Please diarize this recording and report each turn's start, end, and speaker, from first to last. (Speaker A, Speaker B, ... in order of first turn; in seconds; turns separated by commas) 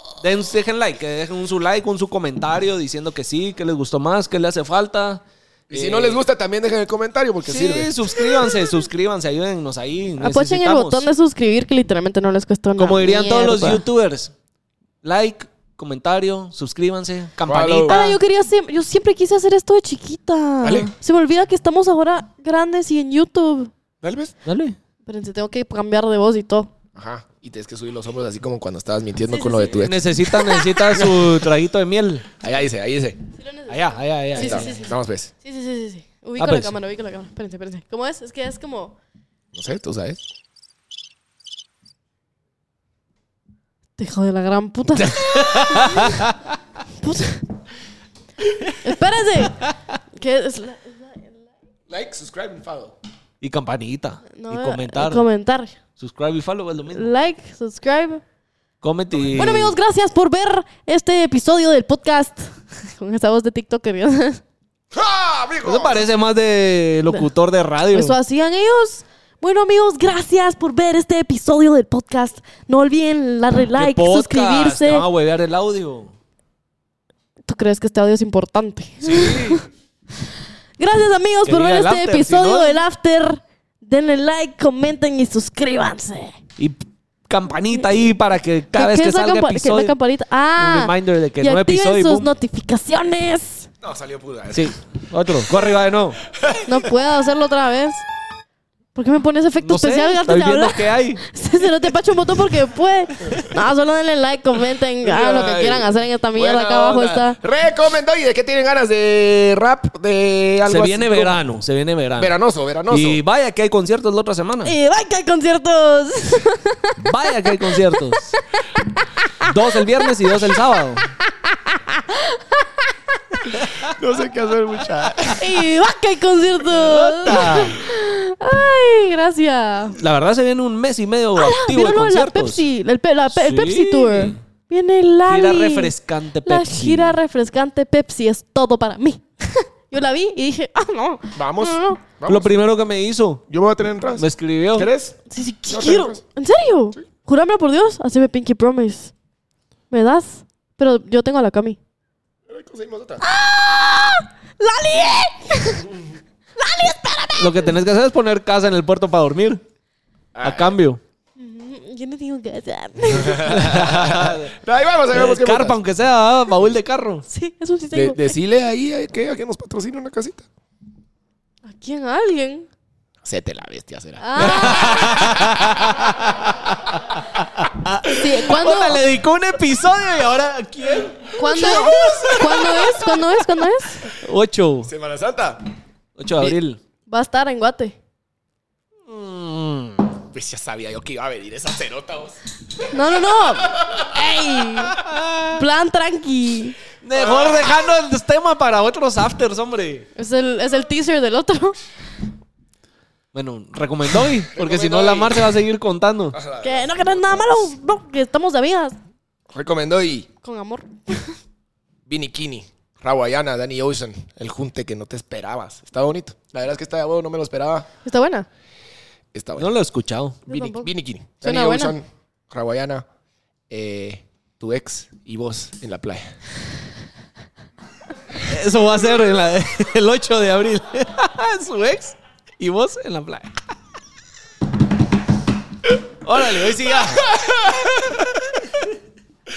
Speaker A: 0.2-6.2, Speaker B: 5.7-8.4, Speaker A: 7.5-11.1, Speaker C: 10.2-13.8, Speaker A: 12.8-14.3, Speaker A: 15.0-18.2, Speaker B: 17.5-18.0, Speaker C: 17.9-23.7, Speaker B: 20.6-20.9, Speaker B: 24.0-24.3, Speaker A: 24.5-24.8, Speaker C: 25.1-26.7, Speaker B: 26.9-30.1, Speaker C: 29.3-31.0, Speaker A: 29.7-32.3, Speaker B: 31.0-31.3, Speaker B: 32.4-33.2, Speaker C: 33.4-39.0, Speaker A: 33.7-34.7, Speaker B: 34.4-35.3, Speaker A: 36.4-36.7, Speaker B: 39.5-40.2, Speaker C: 44.0-46.2, Speaker B: 45.0-45.9, Speaker A: 45.5-46.4, Speaker C: 47.0-47.5, Speaker C: 48.8-49.6, Speaker C: 50.2-51.3, Speaker B: 51.9-52.9, Speaker A: 53.4-55.2, Speaker C: 54.3-55.8, Speaker A: 56.0-57.1, Speaker C: 56.9-58.2, Speaker A: 58.8-59.7, Speaker B: 59.2-59.7, Speaker C: 59.4-64.4, Speaker B: 64.9-66.1, Speaker A: 65.6-68.2, Speaker C: 67.9-75.1, Speaker A: 73.7-76.1, Speaker C: 77.5-79.7, Speaker A: 79.0-79.6, Speaker C: 80.8-86.4, Speaker A: 81.5-82.8, Speaker A: 86.6-89.9, Speaker C: 87.7-88.1, Speaker C: 88.7-93.7, Speaker A: 90.6-92.3, Speaker B: 93.8-94.8, Speaker A: 94.5-96.2, Speaker B: 96.3-96.9, Speaker C: 96.7-98.0, Speaker C: 99.0-107.4, Speaker A: 99.6-101.2, Speaker B: 105.0-111.3, Speaker A: 110.7-112.3, Speaker B: 112.2-113.2, Speaker A: 112.9-114.7, Speaker C: 114.7-120.1, Speaker A: 117.0-118.4, Speaker A: 119.4-121.1, Speaker C: 121.2-122.9, Speaker B: 123.8-125.6, Speaker C: 125.3-130.0, Speaker A: 126.7-127.8, Speaker A: 130.0-132.6, Speaker C: 131.3-142.0, Speaker A: 133.3-134.4, Speaker A: 135.3-137.2, Speaker B: 141.3-142.5, Speaker A: 142.3-143.4, Speaker B: 143.5-146.2, Speaker A: 144.2-144.9, Speaker C: 145.3-149.1, Speaker C: 149.9-151.8, Speaker B: 152.5-153.2, Speaker C: 153.2-155.9, Speaker C: 156.6-157.7, Speaker A: 157.4-159.6, Speaker B: 160.3-160.8, Speaker A: 160.4-161.0, Speaker C: 161.4-163.5, Speaker B: 163.1-165.8, Speaker A: 163.5-164.5, Speaker A: 165.1-167.2, Speaker C: 167.3-168.3, Speaker B: 167.9-170.5, Speaker C: 171.7-172.7, Speaker B: 173.2-176.1, Speaker C: 174.2-175.3, Speaker A: 174.4-183.3, Speaker C: 178.1-179.0, Speaker C: 181.3-184.1, Speaker B: 181.4-182.9, Speaker A: 184.1-184.9, Speaker B: 184.8-185.6, Speaker A: 186.2-186.8, Speaker C: 187.1-188.0, Speaker A: 189.1-190.1, Speaker B: 190.3-192.4, Speaker C: 192.9-196.8, Speaker B: 193.6-194.3, Speaker A: 194.9-195.6, Speaker A: 197.0-200.1, Speaker B: 197.2-197.8, Speaker C: 200.2-201.8, Speaker A: 203.3-206.4, Speaker B: 204.5-205.5, Speaker B: 206.3-207.5, Speaker C: 206.6-209.0, Speaker B: 209.5-210.3, Speaker C: 210.4-211.3, Speaker B: 212.1-217.9, Speaker C: 218.1-218.5, Speaker B: 219.3-219.7, Speaker A: 219.6-220.4, Speaker B: 220.5-223.1, Speaker C: 220.5-220.9, Speaker C: 221.4-222.0, Speaker B: 223.7-226.2, Speaker A: 228.4-233.5, Speaker A: 236.2-237.3, Speaker B: 237.0-238.8